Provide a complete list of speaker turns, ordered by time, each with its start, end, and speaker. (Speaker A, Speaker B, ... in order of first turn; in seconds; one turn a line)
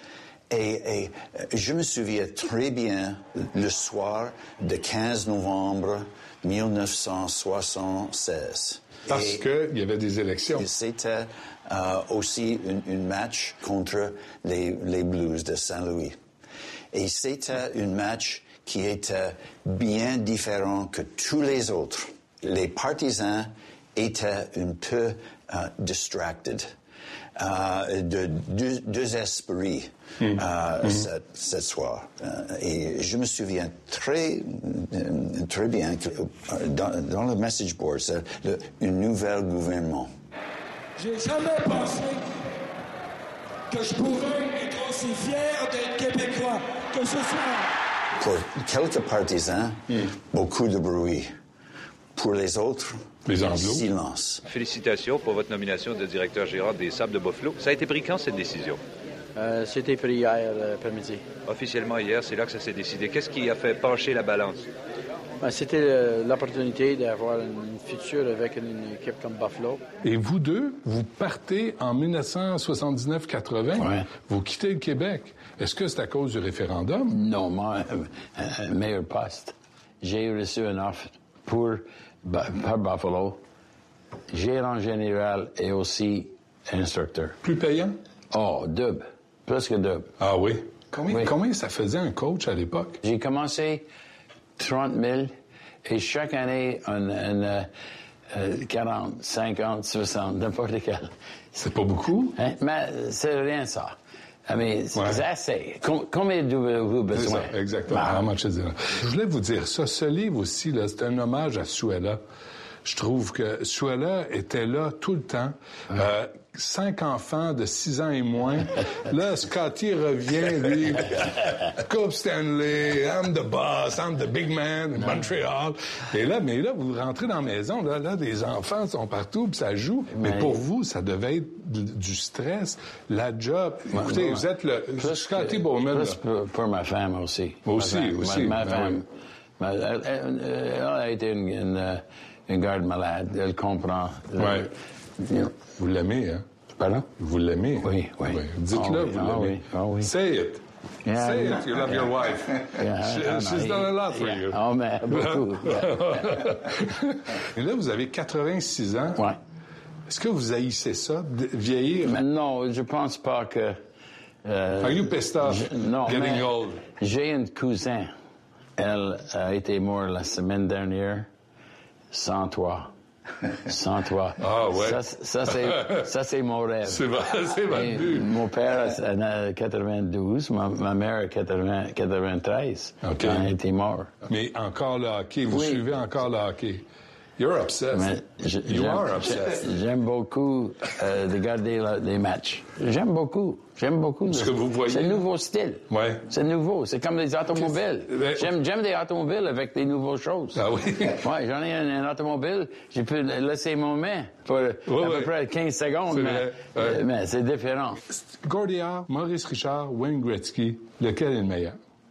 Speaker A: 0.5-9.4
Speaker B: 9.1-10.7
Speaker A: 10.6-16.2
Speaker A: 16.9-26.7
Speaker A: 27.4-40.1
Speaker C: 41.0-42.5
Speaker C: 43.7-47.7
Speaker A: 48.2-51.3
Speaker A: 52.1-54.4
Speaker B: 53.3-53.8
Speaker D: 54.5-58.8
Speaker E: 59.4-61.3
Speaker D: 61.5-64.7
Speaker E: 65.4-69.8
Speaker B: 70.0-77.2
Speaker F: 73.8-74.1
Speaker F: 77.1-83.4
Speaker F: 84.3-87.4
Speaker B: 87.4-88.0
Speaker F: 88.3-90.1
Speaker B: 90.2-93.0
Speaker F: 93.0-93.8
Speaker F: 94.6-95.3
Speaker F: 95.8-97.7
Speaker F: 98.3-101.1
Speaker B: 101.6-102.3
Speaker F: 102.3-104.0
Speaker F: 104.5-108.3
Speaker B: 105.0-105.2
Speaker B: 107.1-112.2
Speaker B: 112.8-136.2
Speaker F: 125.0-125.2
Speaker F: 130.1-130.6
Speaker F: 133.9-134.5
Speaker F: 135.0-139.1
Speaker B: 137.7-139.0
Speaker F: 139.6-145.5
Speaker B: 144.4-144.7
Speaker B: 145.7-146.4
Speaker F: 146.8-147.1
Speaker B: 147.2-159.2
Speaker F: 147.8-150.1
Speaker F: 151.1-152.1
Speaker F: 152.7-155.9
Speaker B: 160.1-162.2
Speaker F: 162.1-163.8
Speaker F: 164.4-168.1
Speaker B: 164.8-166.8
Speaker F: 168.8-171.3
Speaker F: 172.1-172.9
Speaker F: 173.7-177.1
Speaker B: 174.4-176.1
Speaker B: 176.9-178.3
Speaker F: 177.7-184.1
Speaker B: 183.0-183.5
Speaker B: 184.3-186.8
Speaker F: 185.5-185.9
Speaker B: 187.4-189.7
Speaker F: 187.9-208.0
Speaker B: 194.3-195.2
Speaker B: 195.9-196.2
Speaker B: 197.6-198.5
Speaker B: 200.6-201.2
Speaker B: 204.9-205.3
Speaker B: 206.1-207.0
Speaker B: 208.1-211.8